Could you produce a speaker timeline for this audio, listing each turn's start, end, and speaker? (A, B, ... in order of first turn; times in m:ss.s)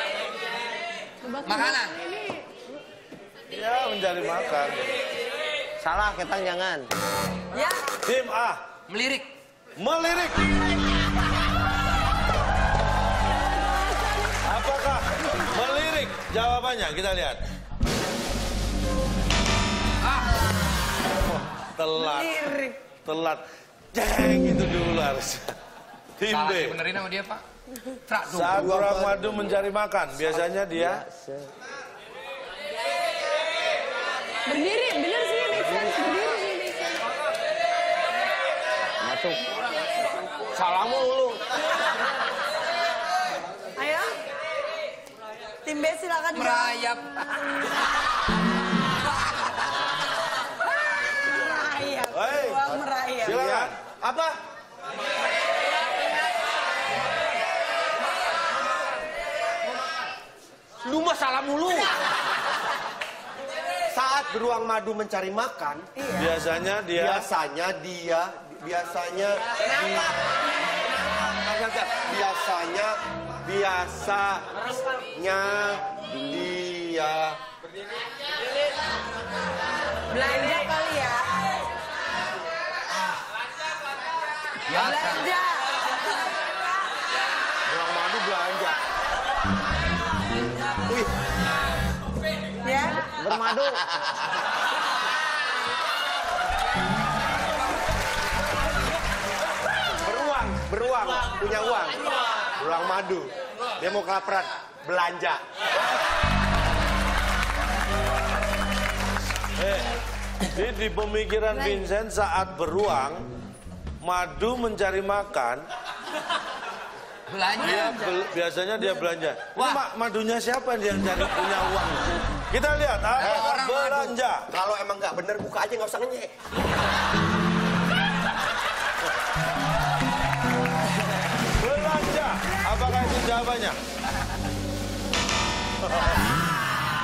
0:01.4-0:02.0 A
0:01.5-0:02.4 B
0:03.5-0:05.0 C
0:05.8-0:06.9 D
0:07.5-0:07.8 E
0:08.0-0:08.6 C
0:08.9-0:09.3 A
0:09.8-0:10.5 C
0:13.4-0:14.6 E
0:14.4-0:17.4 C
0:20.0-0:20.3 A
0:21.5-0:22.5 C
0:21.9-0:22.8 E
0:23.0-0:25.5 C
0:26.2-0:26.8 C
0:26.3-0:27.4 A
0:28.1-0:28.6 A
0:28.3-0:31.0 C
0:28.5-0:29.3 F
0:30.4-0:31.5 D
0:34.5-0:37.0 B
0:35.0-0:35.6 E
0:39.0-0:39.5 D
0:43.8-0:44.1 E
0:45.6-0:46.8 E
0:46.3-0:47.2 A
0:51.0-0:53.4 E
0:52.1-0:52.7 C
0:53.2-0:53.8 C
0:53.2-0:54.3 F
1:00.8-1:01.9 F
1:03.9-1:05.9 F
1:06.0-1:06.3 E
1:06.2-1:07.3 C
1:06.9-1:10.2 F
1:11.2-1:14.5 F
1:15.0-1:17.4 F
1:20.1-1:21.3 E
1:24.7-1:25.3 A
1:24.7-1:26.6 E
1:27.7-1:28.8 C
1:30.8-1:31.1 F
1:32.6-1:33.1 E
1:33.2-1:33.8 D
1:33.3-1:34.2 F
1:40.0-1:45.4 F
1:49.6-1:49.9 C
1:50.4-1:53.2 C
1:54.0-1:55.6 C
1:57.3-1:57.9 A
1:57.6-2:04.5 C
1:57.6-1:58.1 E
1:59.5-1:59.8 A
2:03.2-2:04.2 A
2:03.2-2:03.5 F
2:04.5-2:06.3 F
2:11.6-2:13.8 C
2:15.8-2:16.2 C